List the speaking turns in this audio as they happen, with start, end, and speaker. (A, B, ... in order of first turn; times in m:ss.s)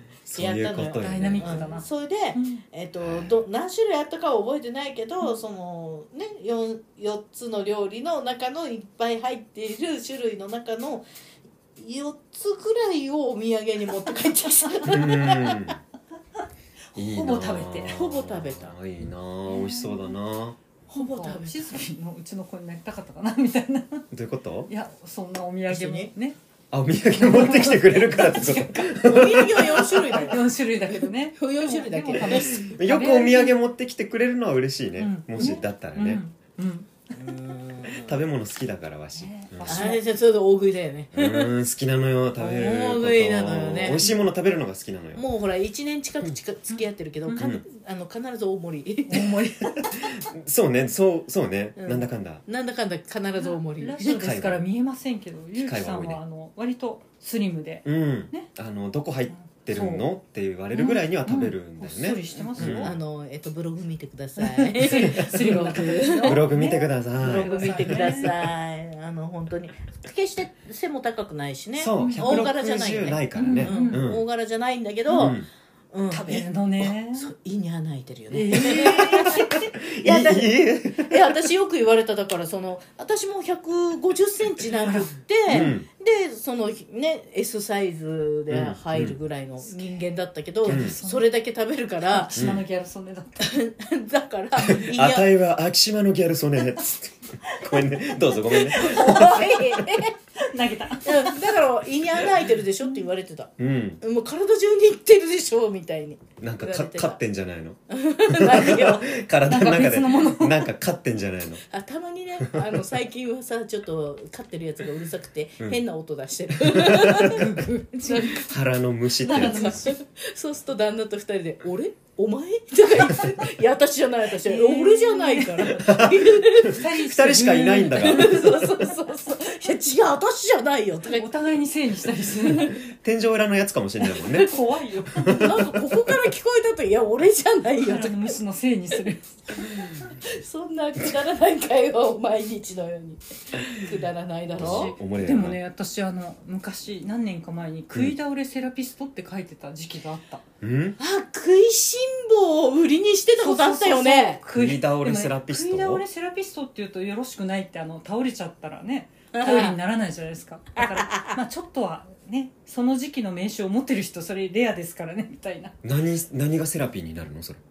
0:00.2-0:01.8 A
0:00.4-0:11.0 B
0:01.0-0:02.6 C
0:11.8-0:15.7 B
0:14.9-0:15.8 A
0:16.9-0:18.0 C
0:17.0-0:20.6 A
0:17.9-0:18.7 B
0:19.5-0:20.1 C
0:20.9-0:24.1 C
0:20.9-0:21.7 B
0:24.1-0:24.7 A
0:24.7-0:26.4 C
0:25.7-0:26.1 B
0:26.7-0:30.3 A
0:27.1-0:33.6 C
0:29.0-0:32.7 B
0:32.2-0:36.2 A
0:35.0-0:36.9 C
0:37.1-0:38.2 B
0:37.9-0:40.0 A
0:39.1-0:40.0 C
0:39.7-0:41.5 B
0:41.1-0:45.2 A
0:42.4-0:44.2 B
0:45.2-0:49.4 B
0:46.8-0:47.4 C
0:49.1-0:49.9 C
0:49.8-0:52.4 A
0:51.8-0:54.2 B
0:53.4-0:58.5 C
0:54.0-0:54.6 A
0:55.6-0:56.2 A
0:57.8-1:02.9 A
0:59.3-1:00.1 C
1:00.7-1:02.9 C
1:02.4-1:06.6 B
1:04.4-1:08.3 C
1:04.9-1:08.3 A
1:07.2-1:15.4 B
1:11.8-1:14.2 A
1:12.0-1:12.3 C
1:13.3-1:14.0 C
1:15.2-1:15.4 A
1:15.9-1:16.4 B
1:16.1-1:17.3 C
1:17.1-1:32.4 B
1:18.3-1:19.7 C
1:18.7-1:21.2 A
1:24.8-1:25.7 C
1:25.5-1:25.8 A
1:28.5-1:29.2 A
1:30.6-1:31.3 C
1:30.7-1:30.9 A
1:32.0-1:33.6 C
1:32.3-1:32.6 A
1:33.4-1:35.3 B
1:34.6-1:39.8 A
1:37.4-1:37.8 C
1:38.5-1:39.5 C
1:38.6-1:40.1 B
1:40.4-1:41.4 C
1:41.0-1:47.2 B
1:43.6-1:44.0 A
1:46.4-1:51.6 A
1:47.9-1:49.1 B
1:49.5-1:50.7 C
1:51.7-1:57.5 B
1:56.6-1:57.5 A
1:57.2-1:58.4 C
1:58.0-1:58.4 B
1:58.2-1:59.8 A
1:59.2-1:59.9 C
1:59.3-2:06.8 B
2:04.4-2:05.8 C
2:05.8-2:08.6 A
2:06.6-2:08.9 C
2:07.9-2:11.3 B
2:11.1-2:12.8 C
2:12.5-2:14.5 A
2:14.0-2:15.7 C
2:15.1-2:15.6 A
2:15.3-2:18.4 B
2:17.8-2:20.1 C
2:19.5-2:24.9 B
2:24.6-2:25.6 A
2:24.6-2:30.4 C
2:30.6-2:31.0 A
2:31.0-2:34.4 B
2:33.4-2:45.7 C
2:34.5-2:36.0 A
2:39.3-2:39.8 B
2:40.8-2:41.4 B
2:45.8-2:47.6 A